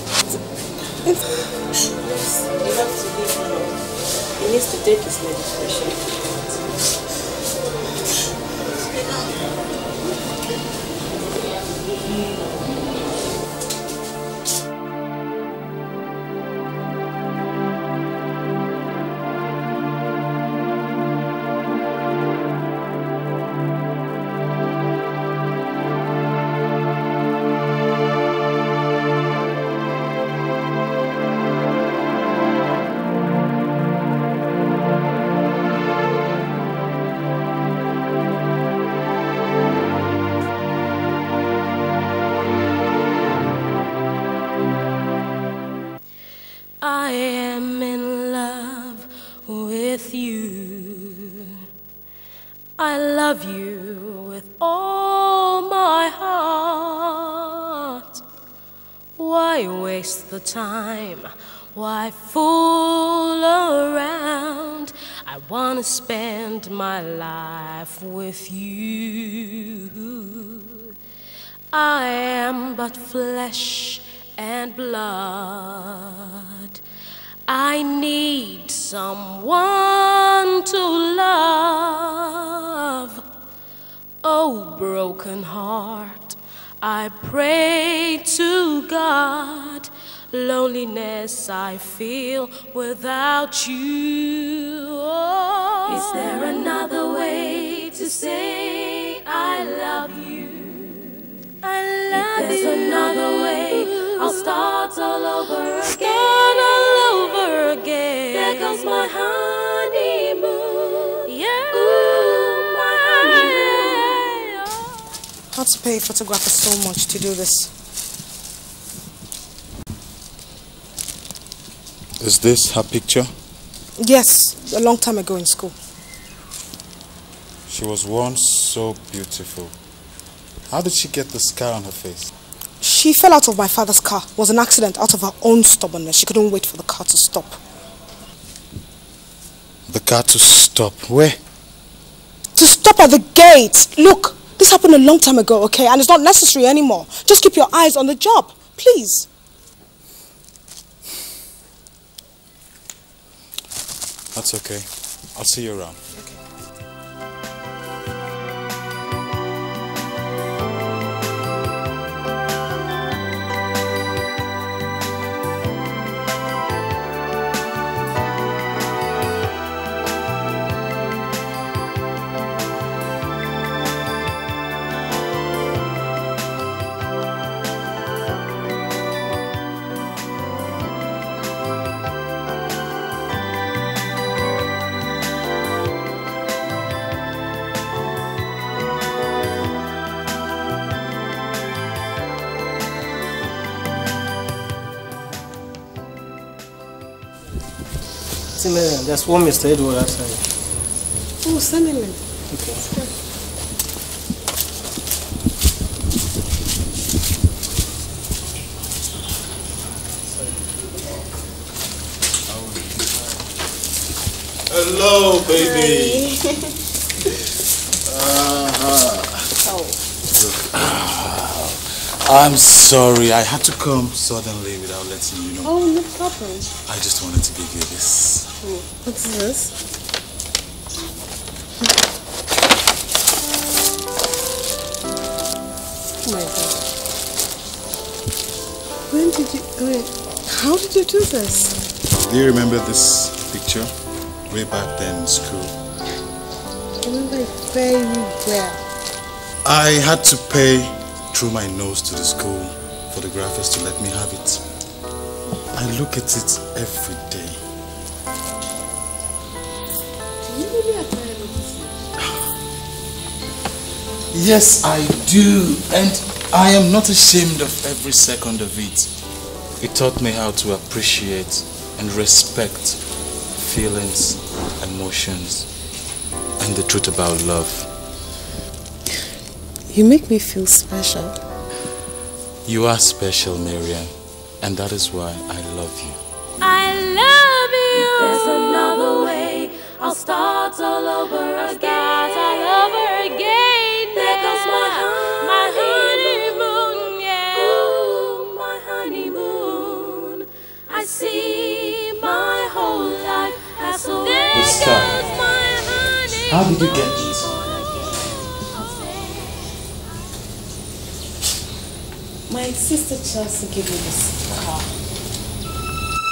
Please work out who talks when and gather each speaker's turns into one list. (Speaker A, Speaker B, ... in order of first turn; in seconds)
Speaker A: 2.0-3.8, 4.4-6.0
Speaker B: 46.8-51.6, 52.8-58.2, 59.2-70.9, 71.7-76.8, 77.5-83.2, 84.2-115.0, 286.6-306.4, 308.0-309.6
Speaker C: 115.5-117.7, 124.0-125.8, 132.8-137.6, 142.6-149.3
Speaker D: 122.2-123.3, 127.7-129.7, 130.7-132.3, 139.9-141.4, 154.3-156.0, 212.5-213.1, 214.7-216.3, 218.1-219.5, 220.3-225.8, 226.9-228.5, 242.2-243.9, 244.5-245.7, 249.6-254.6, 255.7-257.6, 264.3-269.1, 269.8-273.0, 273.6-275.7, 276.6-277.9, 282.7-284.1, 284.6-286.2, 304.5-305.2, 306.5-307.4
Speaker E: 198.6-200.4, 202.5-202.8
Speaker F: 201.4-202.2, 215.6-216.5, 219.6-220.0, 225.6-226.7, 228.6-229.7, 236.2-236.8, 239.1-241.8, 247.0-248.8, 260.4-262.0, 279.9-281.4, 312.5-314.9